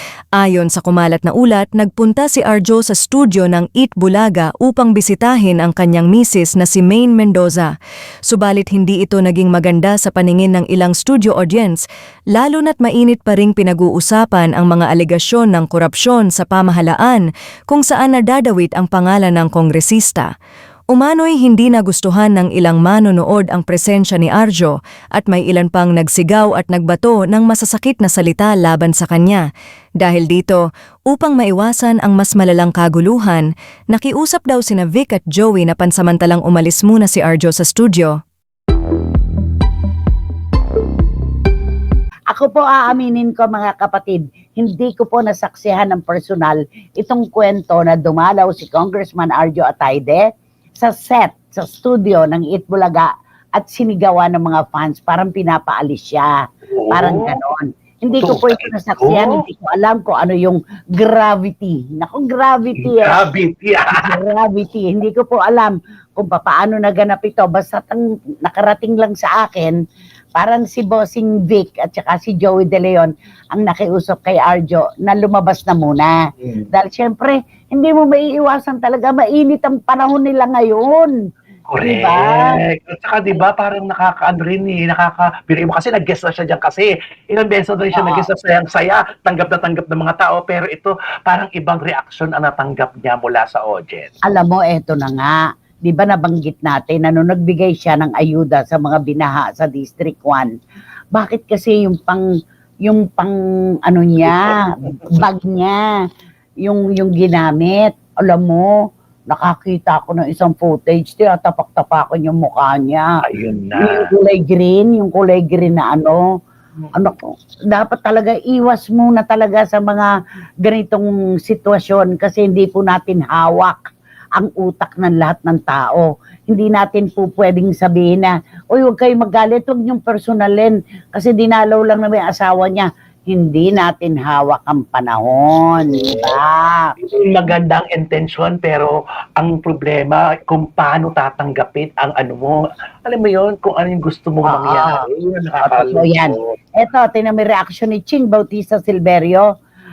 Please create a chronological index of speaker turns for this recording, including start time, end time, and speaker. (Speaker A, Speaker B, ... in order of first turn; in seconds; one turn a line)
Speaker A: 0.3-7.7
Speaker A: 8.3-11.8
Speaker A: 12.3-20.3
Speaker A: 20.9-29.4
Speaker A: 30.0-38.1
Speaker B: 42.3-50.2
Speaker B: 50.8-56.4
Speaker C: 56.7-57.4
Speaker B: 56.9-63.2
Speaker C: 58.1-59.4
Speaker C: 62.8-64.2
Speaker B: 63.9-69.8
Speaker B: 70.3-76.1
Speaker B: 76.7-81.1
Speaker C: 81.7-94.1
Speaker B: 81.8-82.4
Speaker B: 87.9-88.3
Speaker B: 94.2-100.5
Speaker B: 101.1-102.2
Speaker B: 102.8-103.3
Speaker B: 103.8-105.8
Speaker C: 104.3-104.5
Speaker B: 106.6-108.7
Speaker B: 109.3-113.2
Speaker C: 113.2-114.1
Speaker B: 113.7-116.2
Speaker B: 116.9-120.1
Speaker B: 120.6-123.8
Speaker B: 124.4-136.9
Speaker C: 135.8-136.3
Speaker C: 137.0-146.5
Speaker B: 144.4-145.1
Speaker B: 145.6-149.4